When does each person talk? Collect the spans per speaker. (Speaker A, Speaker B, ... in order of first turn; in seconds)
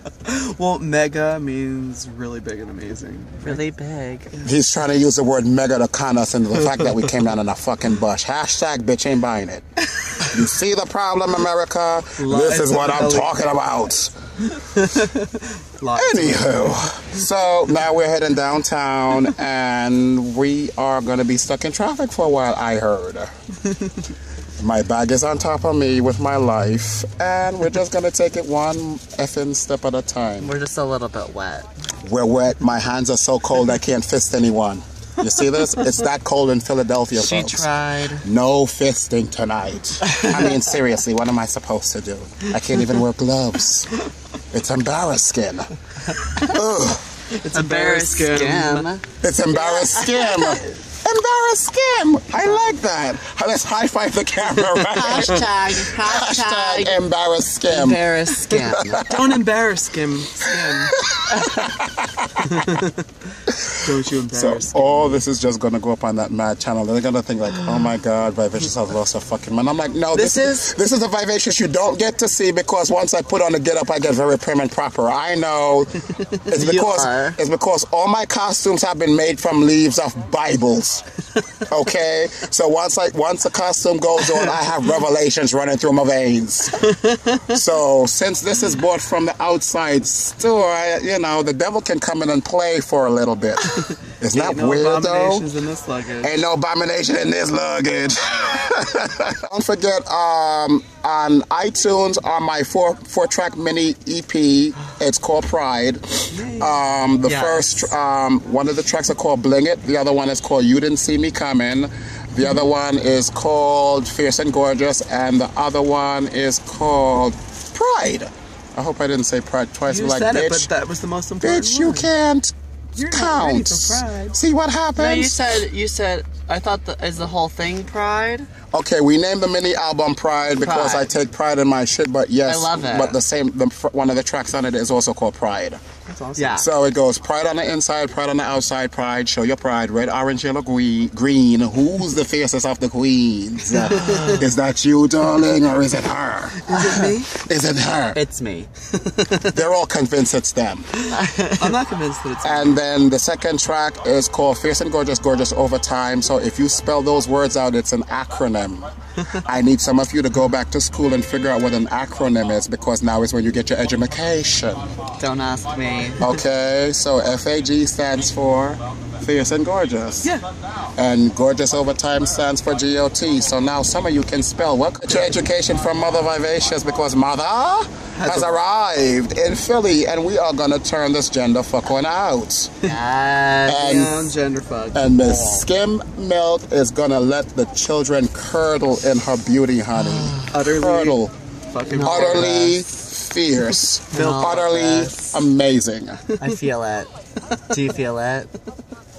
Speaker A: 0.2-3.6, 6.6-7.0, 12.2-13.4, 14.4-16.8, 23.7-23.9, 47.3-48.9, 59.0-61.0, 62.4-63.0, 63.7-65.2, 86.9-87.4, 94.3-96.3, 106.3-106.9, 119.9-122.1, 122.9-124.4, 136.1-136.6, 143.9-144.2, 146.6-147.3, 151.6-152.8, 178.2-178.5, 183.8-185.7, 190.5-191.2, 191.7-192.8, 194.1-194.7
Speaker B: 3.4-4.3, 30.4-31.7, 37.1-38.2, 47.5-50.5, 52.4-52.7, 54.9-57.0, 57.6-59.1, 61.2-61.7, 70.1-70.7, 76.5-77.4, 107.2-107.7, 124.9-128.5, 130.5-131.1, 132.4-133.2, 136.3-136.7, 144.0-144.4, 148.1-149.4, 151.1-151.8, 165.2-166.2, 182.8-183.8, 189.9-190.6, 191.9-192.7, 194.1-195.4, 196.4-197.1, 197.7-198.5
Speaker C: 4.4-9.6, 10.2-14.1, 15.9-23.3, 24.6-30.5, 32.0-37.7, 38.2-44.0, 44.5-47.2, 49.2-59.4, 60.5-62.6, 63.5-81.0, 81.5-86.9, 87.4-95.4, 96.2-120.7, 121.4-125.4, 128.7-135.8, 136.5-148.2, 149.4-150.9, 152.4-164.8, 166.2-170.3, 170.9-182.7, 183.7-184.3, 184.9-191.3, 192.0-196.3